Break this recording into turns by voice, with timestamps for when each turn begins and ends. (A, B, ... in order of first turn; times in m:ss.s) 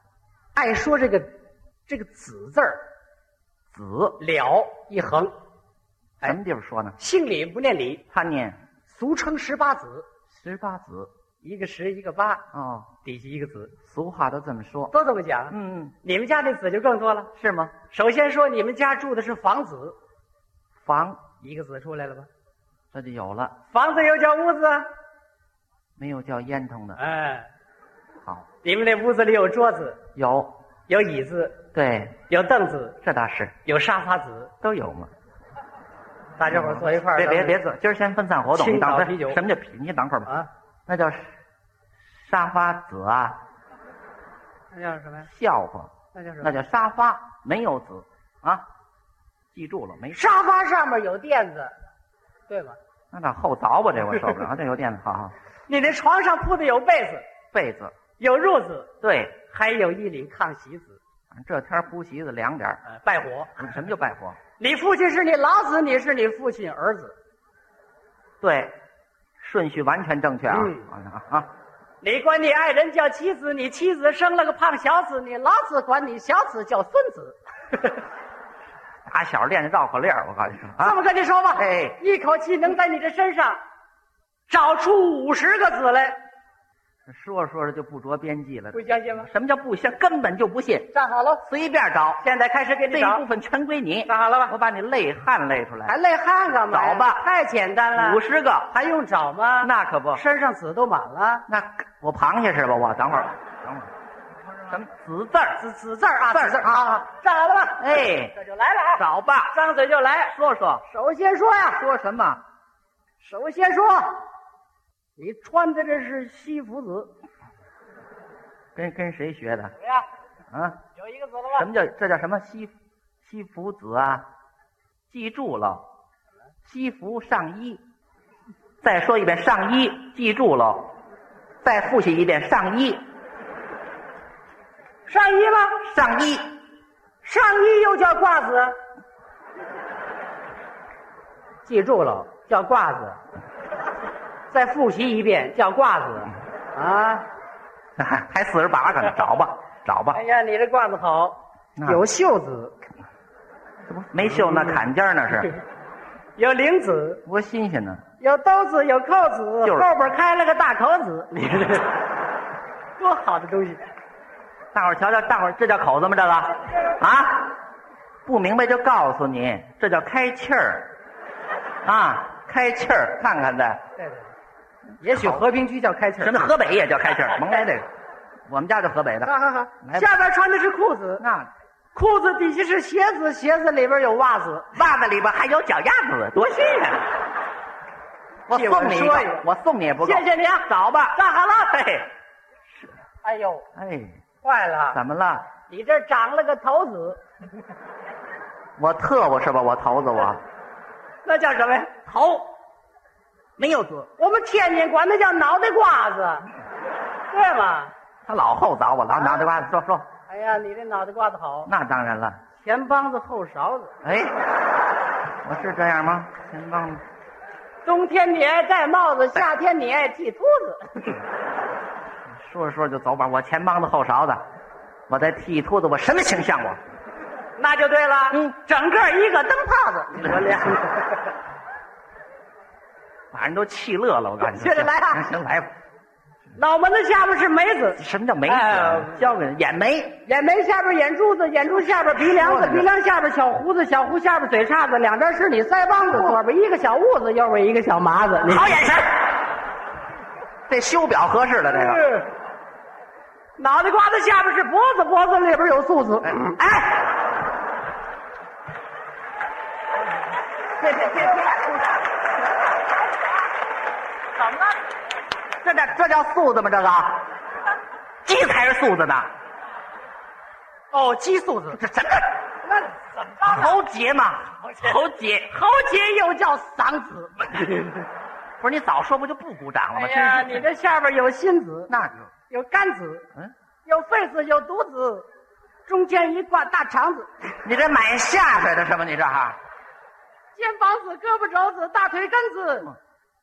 0:00.5-0:01.3 A
0:01.9-0:02.8 A
0:03.7-0:04.2 B
0:04.2-0:05.3 A
0:06.2-0:07.0 B
0:07.0-0:08.0 A
0:08.1-0:08.6 B
0:08.9-0:10.0 A
0:10.3-0:11.1 B
0:11.4-0:12.4 A
0:12.5-0:12.9 B
0:13.0-0:13.7 A
0:13.8-0:14.9 B
0:14.9-0:17.3 A
0:15.5-0:15.9 B
0:17.4-0:17.7 B
0:17.9-0:20.0 A
0:20.8-0:21.2 B
0:21.4-0:22.3 A
0:22.9-0:23.6 B
0:23.7-0:24.9 A
0:26.0-0:27.0 B
0:27.0-0:27.5 A
0:28.6-0:30.0 A
0:30.2-0:30.5 B
0:30.9-0:31.6 A
0:31.7-0:32.2 B
0:32.3-0:33.0 A
0:33.0-0:33.5 B
0:33.6-0:34.5 A
0:34.6-0:35.1 B
0:36.4-0:37.6 A
0:36.4-0:40.3 B
0:38.5-0:39.4 A
0:40.9-0:41.3 B
0:42.2-0:43.4 B
0:44.7-0:45.3 A
0:45.3-0:48.6 B
0:46.1-0:46.5 A
0:49.5-0:50.3 B
0:50.1-0:51.8 A
0:52.5-0:52.8 A
0:53.1-0:55.3 B
0:55.7-0:57.2 A
0:57.5-0:57.9 B
0:58.2-0:58.9 A
0:59.0-0:59.4 B
0:59.5-1:01.0 A
1:01.3-1:02.8 B
1:02.8-1:03.5 A
1:03.6-1:04.4 B
1:04.6-1:07.2 A
1:08.4-1:08.8 B
1:09.4-1:11.5 B
1:10.5-1:10.8 A
1:12.0-1:18.0 A
1:19.0-1:21.0 B
1:20.8-1:23.6 A
1:21.6-1:22.0 B
1:24.5-1:26.2 A
1:27.1-1:30.9 B
1:28.7-1:29.3 A
1:30.9-1:31.4 A
1:31.4-1:32.2 B
1:32.2-1:33.2 A
1:32.9-1:36.0 B
1:34.1-1:34.5 A
1:35.9-1:41.4 A
1:36.7-1:37.2 B
1:37.9-1:38.7 B
1:39.6-1:40.2 B
1:41.5-1:43.9 B
1:44.7-1:45.6 B
1:45.6-1:50.3 A
1:46.3-1:46.8 B
1:47.8-1:48.3 B
1:49.0-1:49.5 B
1:50.3-1:50.8 B
1:50.8-1:51.8 A
1:51.7-1:52.4 B
1:53.2-1:54.2 A
1:55.2-1:57.1 A
1:58.7-1:59.7 B
1:59.8-2:00.0 A
2:00.5-2:00.8 B
2:01.0-2:01.6 A
2:01.5-2:04.3 B
2:05.1-2:05.8 B
2:06.6-2:07.8 B
2:08.8-2:10.9 B
2:11.6-2:13.0 B
2:15.1-2:15.8 A
2:15.8-2:16.5 B
2:17.2-2:18.8 A
2:21.6-2:23.2 A
2:24.5-2:27.2 A
2:28.0-2:30.2 B
2:30.1-2:32.7 A
2:31.8-2:32.0 B
2:33.9-2:35.5 B
2:36.4-2:37.2 A
2:37.2-2:38.0 B
2:38.2-2:41.9 A
2:39.6-2:39.9 B
2:43.0-2:43.8 A
2:44.7-2:47.5 B
2:48.2-2:50.9 B
2:51.8-2:53.8 B
2:54.0-2:54.3 A
2:55.0-2:55.4 B
2:55.0-2:56.5 A
2:56.2-2:57.8 B
2:58.5-2:59.3 B
2:59.2-3:01.2 A
2:59.8-3:00.2 B
3:01.2-3:01.5 B
3:01.9-3:04.7 A
3:04.7-3:07.1 B
3:08.5-3:11.2 B
3:08.5-3:09.4 A
3:10.0-3:11.9 A
3:11.7-3:12.1 B
3:12.7-3:13.0 B
3:13.2-3:13.7 A
3:13.8-3:14.2 B
3:14.4-3:15.0 A
3:14.9-3:15.5 B
3:15.7-3:17.2 A
3:18.8-3:20.4 B
3:21.2-3:22.2 A
3:22.1-3:22.4 B
3:23.6-3:24.1 B
3:24.2-3:26.5 A
3:27.3-3:27.9 A
3:28.2-3:30.0 B
3:30.3-3:31.7 A
3:31.6-3:32.4 B
3:32.6-3:33.9 A
3:34.0-3:34.4 B
3:35.4-3:37.0 B
3:37.8-3:41.2 A
3:42.3-3:44.4 B
3:45.1-3:46.8 B
3:47.6-3:51.1 A
3:53.3-3:55.7 B
3:54.4-3:55.2 A
3:56.6-3:59.2 A
3:58.0-4:00.2 B
4:00.2-4:08.9 A
4:02.2-4:02.9 B
4:08.6-4:09.1 B
4:10.7-4:12.0 B
4:11.7-4:12.3 A
4:13.6-4:16.6 A
4:16.6-4:16.8 B
4:20.8-4:21.8 B
4:20.9-4:21.4 A
4:24.4-4:24.7 A
4:25.6-4:27.2 B
4:28.2-4:29.3 B
4:30.9-4:31.8 A
4:31.7-4:32.3 B
4:32.6-4:33.8 A
4:33.4-4:35.5 B
4:35.5-4:38.0 A
4:38.6-4:40.6 B
4:39.9-4:41.9 A
4:41.9-4:42.3 B
4:42.5-4:43.3 A
4:43.8-4:45.3 A
4:45.9-4:47.5 A
4:47.6-4:49.6 B
4:50.5-4:52.9 A